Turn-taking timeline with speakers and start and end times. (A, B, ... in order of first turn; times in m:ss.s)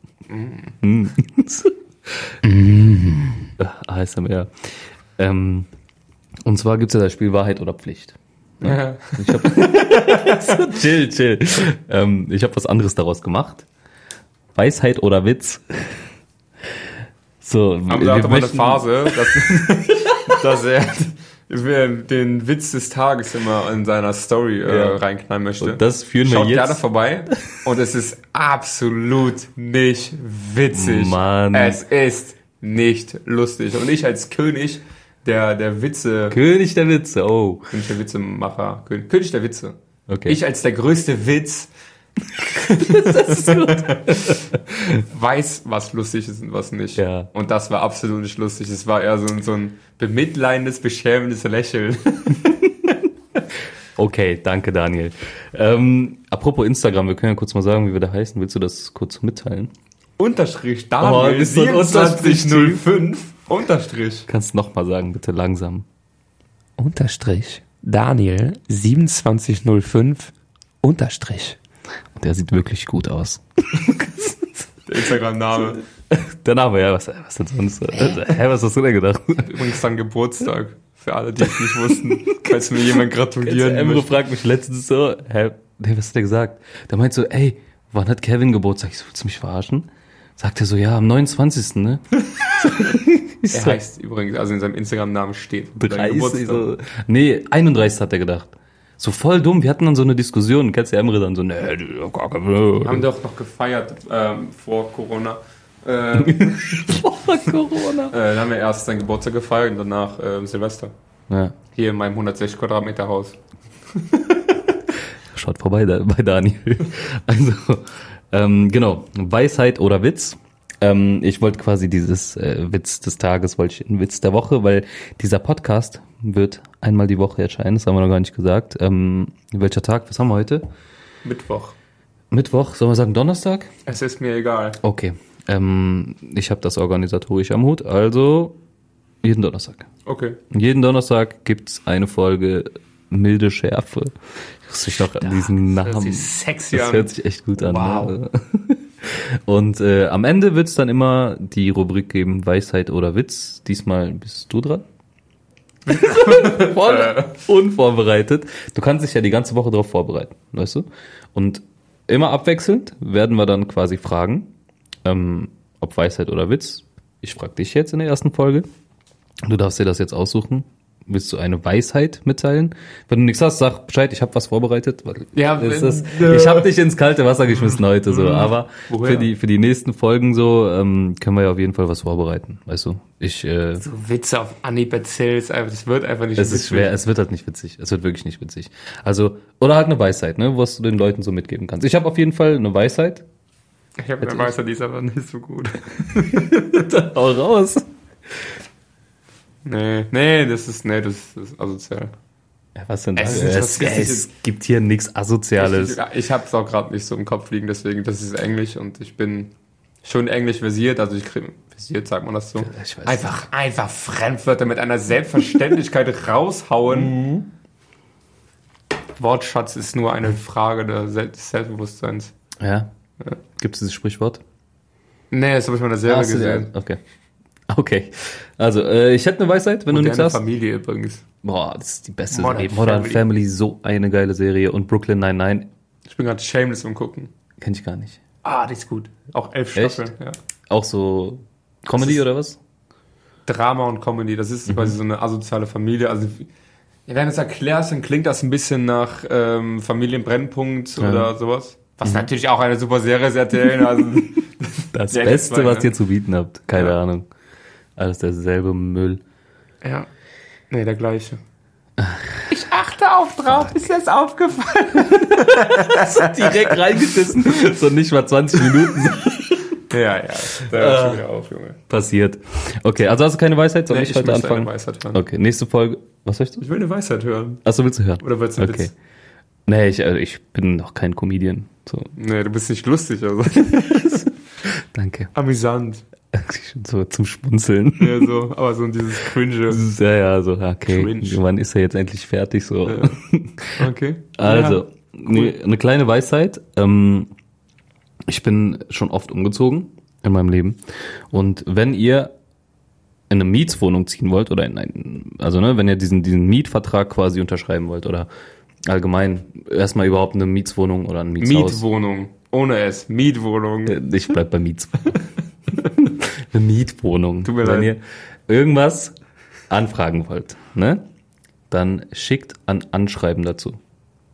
0:00.3-0:00.8 A
0:00.8-0:02.4 B
0:02.4-0:03.5 A
0:03.6-0:05.7 B
0:06.5-0:13.7 B
0:08.6-0:10.6 A
0:14.6-0:16.0 B
0:17.4-0:20.4 B
0:17.9-0:36.4 A
0:24.7-0:25.0 B
0:25.6-0:26.8 B
0:30.7-0:31.8 B
0:36.3-0:37.7 B
0:37.7-0:41.7 A
0:40.1-0:40.4 B
0:42.4-0:45.0 B
0:42.6-0:53.0 A
0:47.0-0:47.3 B
0:54.0-0:59.7 B
1:00.2-1:04.3 A
1:01.0-1:02.8 B
1:04.3-1:05.9 B
1:06.8-1:11.6 A
1:12.2-1:14.7 B
1:14.9-1:15.8 A
1:16.1-1:19.6 B
1:19.4-1:24.1 A
1:22.3-1:32.0 B
1:32.6-1:33.8 B
1:33.5-1:36.7 A
1:35.8-1:43.0 B
1:42.8-1:47.0 A
1:46.2-1:48.2 B
1:48.1-1:50.9 A
1:51.3-1:51.6 B
1:51.7-1:53.4 A
1:53.9-1:54.4 A
1:55.3-2:10.7 B
2:11.2-2:11.8 A
2:12.3-2:13.7 B
2:13.9-2:14.8 A
2:14.8-2:18.6 B
2:19.2-2:19.9 B
2:20.1-2:20.4 A
2:20.5-2:34.8 B
2:25.2-2:28.2 A
2:35.9-2:37.3 A
2:35.9-2:44.5 B
2:45.0-2:48.7 B
2:49.5-3:03.8 B
2:55.4-2:56.7 A
2:57.6-2:59.3 A
3:03.8-3:07.0 A
3:06.4-3:13.2 B
3:14.0-3:16.9 A
3:14.2-3:14.5 B
3:16.2-3:17.9 B
3:19.6-3:22.1 A
3:22.8-3:26.0 B
3:23.2-3:24.3 A
3:25.6-3:29.5 A
3:30.0-3:37.2 A
3:32.6-3:33.4 B
3:37.0-3:37.4 B
3:39.2-3:42.3 A
3:42.6-3:42.9 B
3:43.6-3:44.4 B
3:45.3-3:46.7 A
3:46.1-3:47.0 B
3:47.7-3:50.4 B
3:49.9-3:51.2 A
3:51.4-3:55.7 B
3:52.3-3:53.3 A
3:56.1-3:57.3 A
3:57.6-3:58.2 B
3:58.4-4:00.4 A
3:59.8-4:00.1 B
4:00.7-4:02.6 B
4:01.9-4:02.2 A
4:03.5-4:06.5 A
4:04.7-4:04.9 B
4:07.1-4:15.9 A
4:11.0-4:11.3 B
4:14.9-4:17.3 B
4:18.0-4:19.2 B
4:19.8-4:20.1 A
4:20.7-4:21.4 A
4:22.0-4:22.5 B
4:22.5-4:27.4 A
4:25.0-4:29.8 B
4:28.6-4:28.9 A
4:29.8-4:31.8 A
4:30.6-4:31.2 B
4:31.9-4:36.6 B
4:33.9-4:35.2 A
4:36.6-4:37.6 A
4:37.6-4:38.9 B
4:38.2-4:38.9 A
4:39.7-4:42.1 B
4:42.2-4:44.2 A
4:43.6-4:45.3 B
4:45.3-4:46.0 A
4:46.3-4:48.4 B
4:48.0-4:49.8 A
4:49.7-4:57.3 B
4:50.9-4:51.4 A
4:52.9-4:53.1 A
4:53.8-4:55.6 A
4:58.3-5:00.8 B
5:01.3-5:02.3 B
5:03.3-5:08.3 B
5:08.9-5:11.8 B
5:11.4-5:14.0 A
5:13.9-5:15.2 B
5:15.8-5:19.2 B
5:17.4-5:17.9 A
5:19.7-5:21.0 B
5:21.7-5:23.8 B